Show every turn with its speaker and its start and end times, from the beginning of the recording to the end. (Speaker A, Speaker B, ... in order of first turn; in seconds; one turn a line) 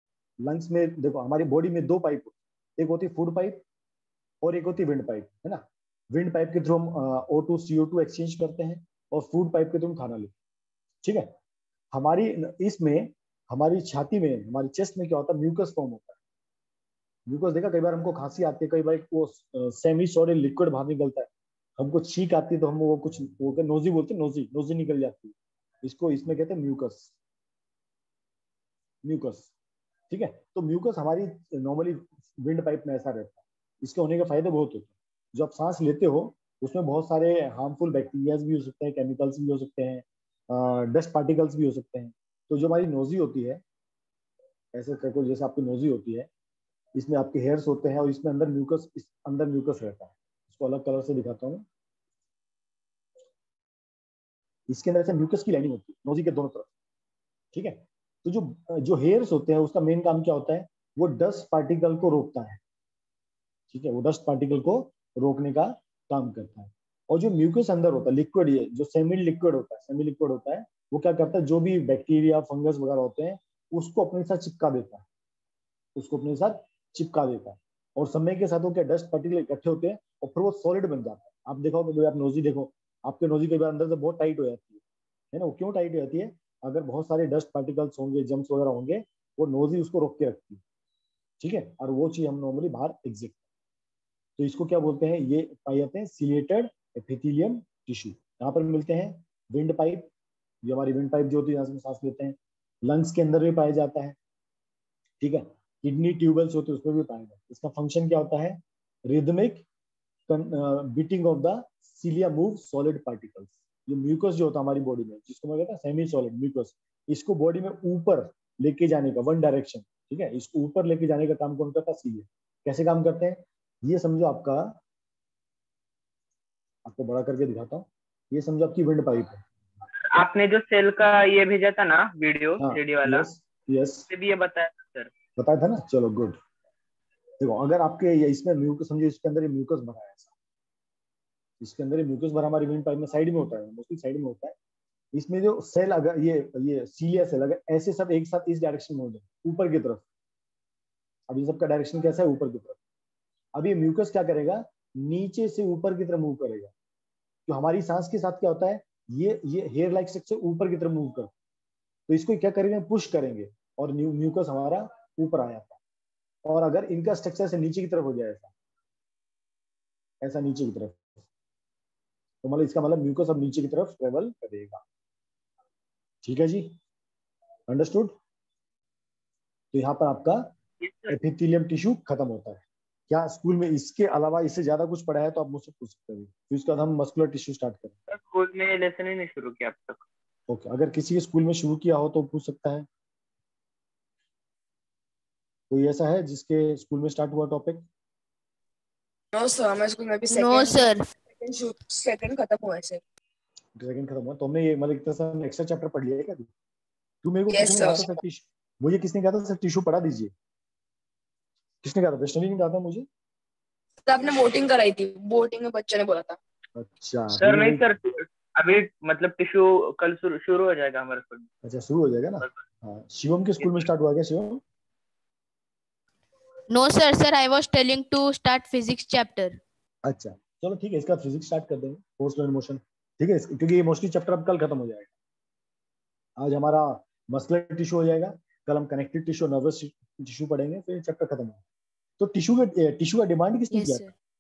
Speaker A: 0.4-3.6
Speaker A: 4.4-10.3
Speaker A: 11.0-11.3
Speaker A: 11.9-16.1
Speaker A: 17.3-27.1
Speaker A: 29.0-29.5
Speaker A: 30.1-43.6
Speaker A: 44.7-46.3
Speaker A: 46.9-51.6
Speaker A: 54.7-56.7
Speaker A: 57.5-62.6
Speaker A: 63.7-75.0
Speaker A: 76.0-84.8
Speaker A: 85.3-90.6
Speaker A: 91.4-93.4
Speaker A: 94.4-100.1
Speaker A: 100.6-104.2
Speaker A: 105.2-109.6
Speaker A: 110.3-124.8
Speaker A: 126.8-129.4
Speaker B: 130.1-133.3
Speaker A: 132.6-134.1
Speaker B: 134.1-135.1
Speaker A: 135.4-136.4
Speaker A: 137.4-140.3
Speaker A: 141.6-144.5
Speaker A: 145.1-150.0
Speaker A: 151.3-152.8
Speaker A: 153.5-156.7
Speaker A: 157.5-161.3
Speaker A: 162.1-165.8
Speaker A: 166.4-168.5
Speaker A: 170.2-171.1
Speaker A: 172.4-174.8
Speaker A: 176.2-176.8
Speaker A: 177.7-178.1
Speaker A: 179.7-180.5
Speaker B: 180.8-181.1
Speaker A: 181.1-187.9
Speaker B: 188.1-190.0
Speaker A: 190.5-192.9
Speaker A: 195.7-197.8
Speaker C: 199.3-203.0
Speaker D: 200.3-201.0
Speaker A: 203.8-206.5
Speaker A: 207.2-210.3
Speaker C: 207.5-208.1
Speaker A: 211.8-213.1
Speaker C: 214.1-216.4
Speaker A: 216.8-217.9
Speaker B: 217.4-221.5
Speaker A: 221.6-224.6
Speaker D: 226.7-229.6
Speaker A: 230.0-235.1
Speaker A: 236.4-241.6
Speaker A: 242.2-244.1
Speaker D: 243.7-244.1